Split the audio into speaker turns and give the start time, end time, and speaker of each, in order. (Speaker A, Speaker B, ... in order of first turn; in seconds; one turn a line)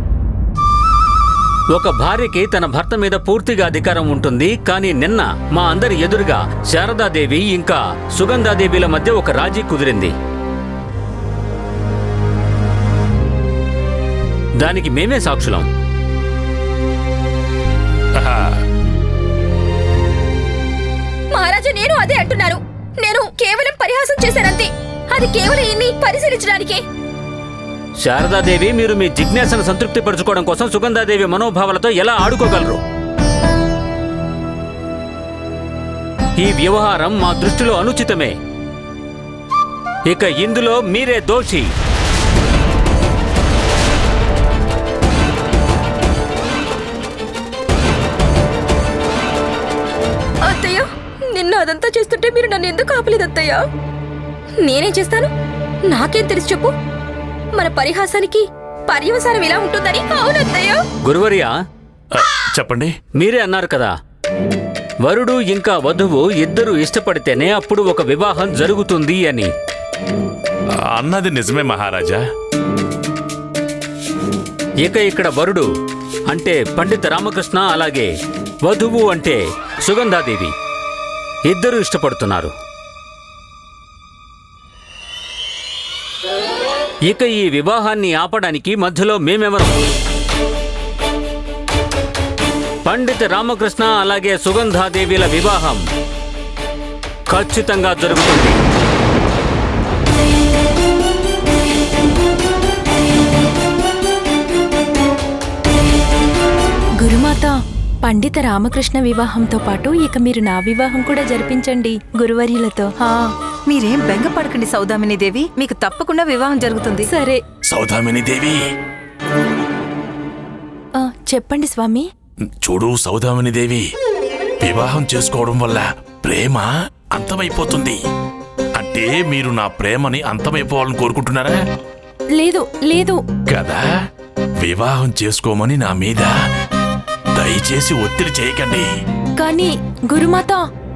Speaker A: 1.7-10.1
Speaker A: 14.6-15.7
Speaker B: 18.1-18.5
Speaker C: 21.3-26.8
Speaker A: 28.0-32.8
Speaker A: 36.4-38.3
Speaker A: 40.1-41.7
Speaker C: 50.4-53.6
Speaker C: 54.6-55.3
Speaker C: 55.9-56.7
Speaker C: 57.5-60.8
Speaker A: 61.0-61.5
Speaker B: 62.1-63.0
Speaker A: 63.1-63.9
Speaker A: 65.0-69.5
Speaker B: 70.9-72.2
Speaker A: 74.8-75.7
Speaker A: 76.3-78.1
Speaker A: 78.6-80.5
Speaker A: 81.5-82.5
Speaker A: 87.1-89.8
Speaker A: 92.8-95.8
Speaker A: 97.3-98.6
Speaker D: 107.0-113.3
Speaker E: 113.7-117.1
Speaker D: 117.0-117.4
Speaker B: 117.7-118.6
Speaker D: 121.0-122.1
Speaker B: 122.6-123.9
Speaker B: 124.6-128.0
Speaker B: 128.8-131.6
Speaker D: 132.3-133.2
Speaker B: 133.5-133.8
Speaker B: 134.6-136.3
Speaker B: 137.3-138.8
Speaker D: 139.4-140.7